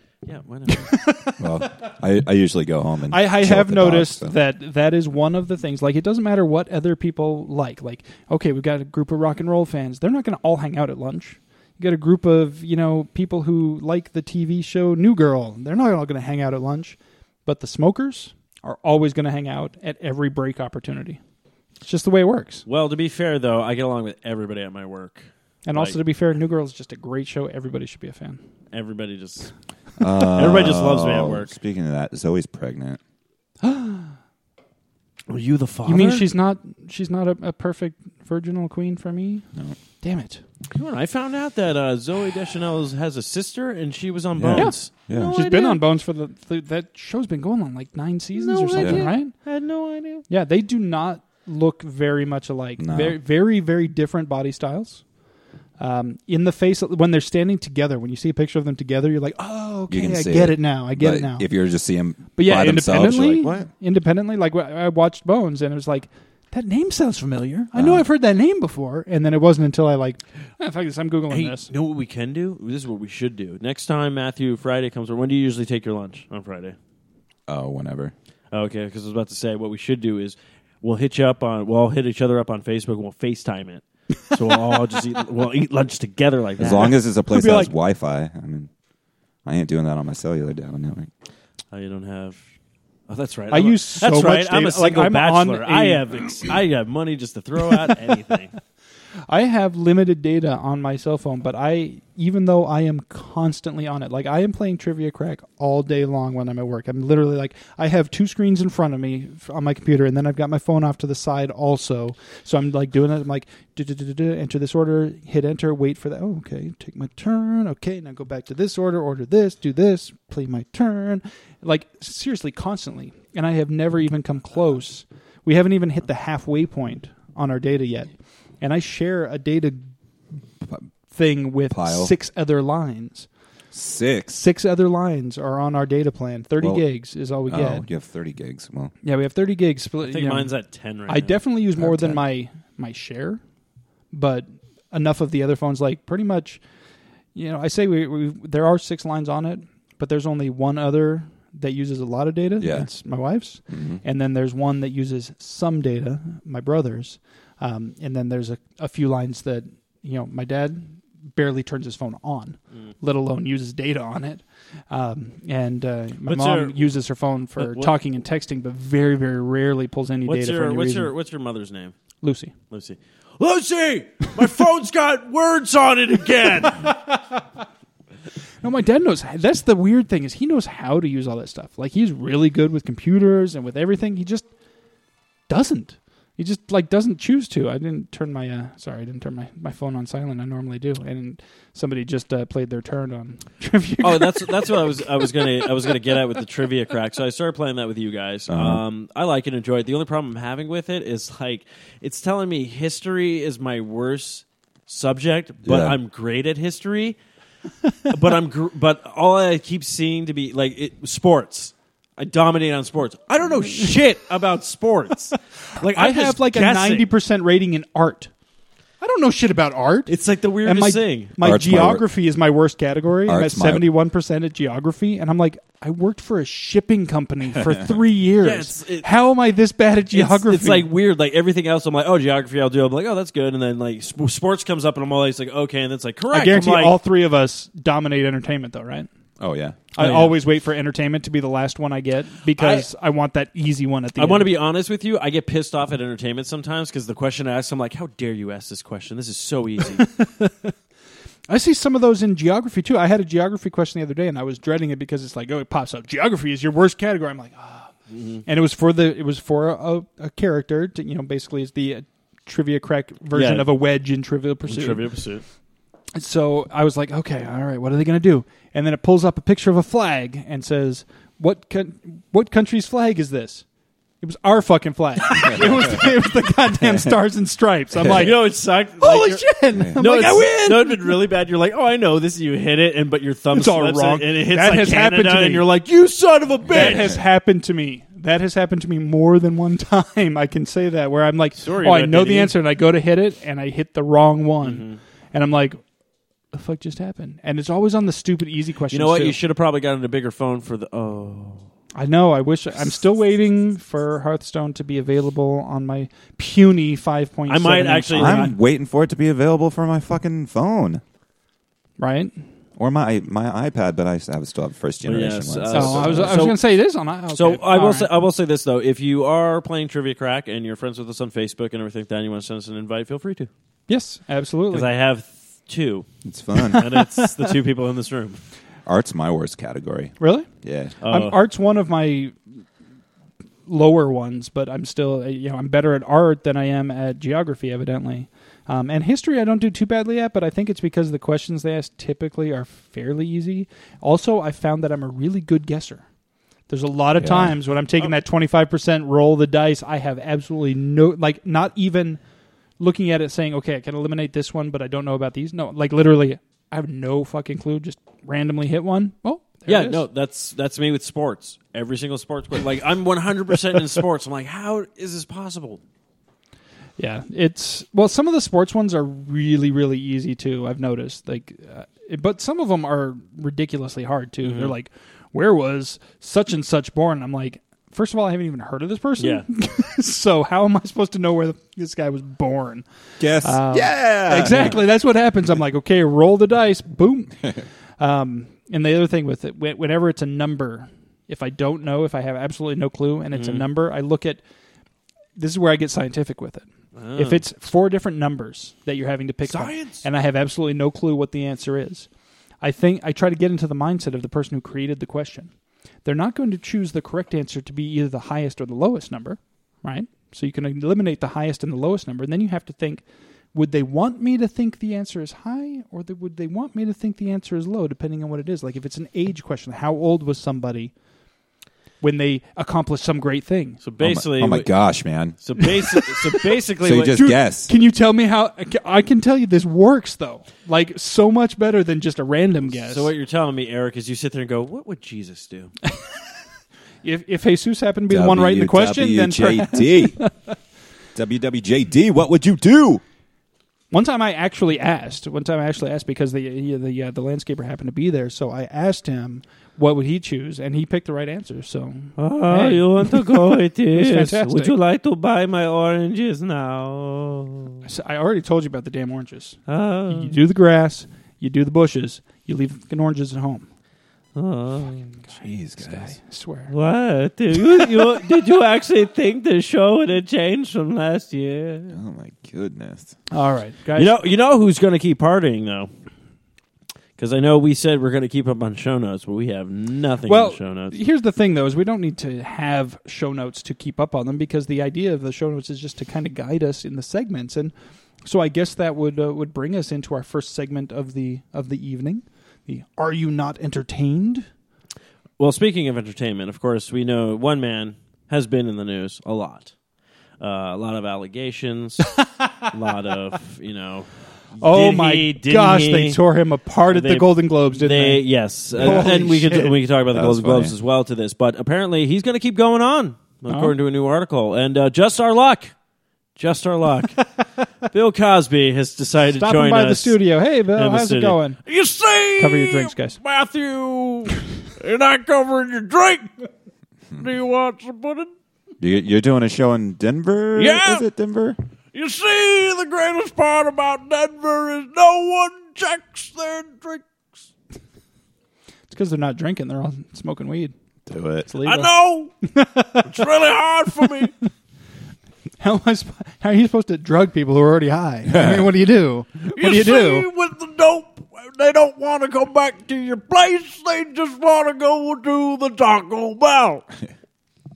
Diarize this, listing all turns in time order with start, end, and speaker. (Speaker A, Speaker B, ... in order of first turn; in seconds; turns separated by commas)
Speaker A: 0.2-0.9, Speaker B: 0.7-1.7, Speaker C: 1.4-4.3, Speaker B: 3.1-21.2, Speaker B: 21.8-22.6, Speaker A: 22.7-26.0, Speaker B: 25.7-28.4, Speaker A: 28.7-29.5, Speaker C: 30.0-33.0, Speaker A: 30.4-31.5, Speaker B: 33.6-34.1, Speaker A: 35.3-36.3, Speaker B: 35.9-39.5, Speaker B: 40.0-40.4, Speaker A: 40.8-45.8, Speaker C: 44.4-45.4, Speaker B: 44.5-49.4, Speaker A: 48.4-50.2, Speaker C: 48.8-49.1, Speaker B: 50.3-55.0, Speaker C: 52.8-53.2, Speaker B: 55.8-61.5, Speaker C: 59.9-63.7, Speaker B: 62.4-71.7, Speaker C: 67.7-68.0, Speaker A: 71.3-76.8, Speaker C: 77.5-78.1, Speaker A: 78.5-87.0, Speaker C: 86.6-88.7, Speaker B: 87.2-87.7, Speaker C: 89.5-91.1, Speaker A: 91.7-92.4, Speaker A: 93.1-98.5, Speaker B: 93.5-96.1, Speaker B: 99.3-129.9, Speaker B: 131.1-133.3, Speaker C: 131.7-132.1, Speaker C: 133.7-134.4, Speaker B: 134.3-137.9, Speaker C: 136.6-136.8, Speaker C: 137.5-138.9, Speaker B: 139.0-140.5, Speaker A: 140.0-141.4, Speaker B: 141.1-143.4, Speaker C: 141.8-142.2, Speaker B: 144.1-146.6, Speaker B: 147.3-171.1, Speaker C: 152.6-152.9, Speaker C: 153.7-154.0, Speaker A: 166.3-166.9, Speaker A: 167.6-167.9, Speaker A: 170.3-171.9, Speaker B: 172.2-172.5, Speaker A: 172.7-176.9, Speaker B: 176.6-177.4, Speaker B: 178.6-184.5, Speaker B: 185.5-195.7, Speaker A: 194.0-207.2, Speaker C: 198.5-198.8, Speaker C: 205.6-206.0, Speaker A: 208.1-217.1, Speaker B: 215.8-218.3, Speaker B: 219.0-220.1, Speaker A: 220.1-221.3, Speaker B: 220.6-230.9, Speaker C: 221.4-222.1, Speaker C: 223.3-223.8, Speaker A: 228.4-229.1, Speaker A: 230.1-237.0, Speaker B: 236.3-239.1, Speaker C: 239.4-239.8, Speaker B: 239.9-244.5, Speaker A: 240.0-240.4, Speaker A: 242.6-242.9, Speaker A: 244.2-250.1, Speaker B: 250.0-250.7, Speaker B: 251.5-265.0, Speaker A: 258.1-258.4, Speaker A: 263.3-263.7, Speaker A: 264.7-265.4, Speaker B: 266.1-273.6, Speaker B: 274.2-278.4, Speaker A: 278.0-287.1, Speaker B: 279.0-281.2, Speaker B: 283.5-295.8, Speaker A: 291.6-292.5, Speaker A: 294.6-295.0, Speaker B: 296.5-299.4, Speaker A: 298.9-301.7, Speaker B: 301.9-308.5, Speaker A: 307.5-308.6, Speaker C: 308.1-311.0, Speaker B: 312.0-312.4, Speaker C: 312.8-316.4, Speaker A: 315.0-316.6, Speaker B: 315.7-318.1, Speaker A: 317.3-323.5, Speaker B: 323.9-324.9, Speaker A: 324.7-326.1, Speaker C: 326.2-326.9, Speaker B: 326.7-327.3, Speaker A: 326.7-328.4, Speaker C: 328.9-330.9, Speaker B: 330.2-330.5, Speaker A: 331.0-331.4, Speaker B: 331.1-332.4, Speaker B: 333.7-346.1, Speaker B: 346.7-352.2, Speaker C: 347.2-347.6, Speaker B: 352.8-360.1, Speaker A: 359.7-365.8, Speaker B: 367.0-394.4, Speaker A: 374.4-374.7, Speaker A: 379.2-379.4, Speaker C: 383.2-384.8, Speaker A: 393.3-393.7, Speaker B: 395.4-402.1, Speaker A: 396.9-397.4, Speaker A: 399.5-400.1, Speaker B: 402.6-405.5, Speaker B: 406.1-420.9, Speaker B: 422.0-423.8, Speaker A: 423.8-424.7, Speaker C: 424.0-425.4, Speaker A: 425.4-427.2, Speaker B: 425.6-426.1, Speaker C: 426.8-427.7, Speaker B: 427.1-433.1, Speaker A: 432.7-435.7, Speaker B: 437.0-440.3, Speaker C: 438.1-440.2, Speaker C: 441.1-443.0, Speaker B: 443.9-454.8, Speaker A: 452.2-457.8, Speaker B: 457.9-463.7, Speaker A: 459.7-460.4, Speaker A: 464.4-465.2, Speaker B: 465.3-466.7, Speaker C: 465.4-466.1, Speaker A: 466.7-472.0, Speaker C: 471.9-473.1, Speaker B: 473.3-474.2, Speaker A: 474.0-475.9, Speaker A: 477.2-480.9, Speaker B: 480.3-487.7, Speaker B: 488.2-494.5, Speaker A: 495.4-499.7, Speaker A: 500.4-506.2, Speaker B: 502.2-502.7, Speaker B: 504.6-508.2, Speaker A: 506.9-515.7, Speaker B: 508.8-509.8, Speaker C: 508.8-509.1, Speaker C: 510.1-510.8, Speaker B: 513.5-513.7, Speaker A: 516.4-517.3, Speaker A: 517.9-520.2, Speaker B: 519.4-521.6, Speaker A: 520.7-526.3, Speaker B: 522.4-523.2, Speaker A: 527.2-528.3, Speaker C: 528.8-531.6, Speaker A: 530.6-531.1, Speaker A: 531.9-537.0, Speaker B: 538.9-540.7, Speaker C: 541.1-541.5, Speaker B: 541.5-541.9, Speaker A: 541.6-542.3, Speaker B: 542.4-543.1, Speaker A: 543.0-544.3, Speaker B: 545.6-550.3, Speaker C: 548.3-548.6, Speaker A: 549.5-556.9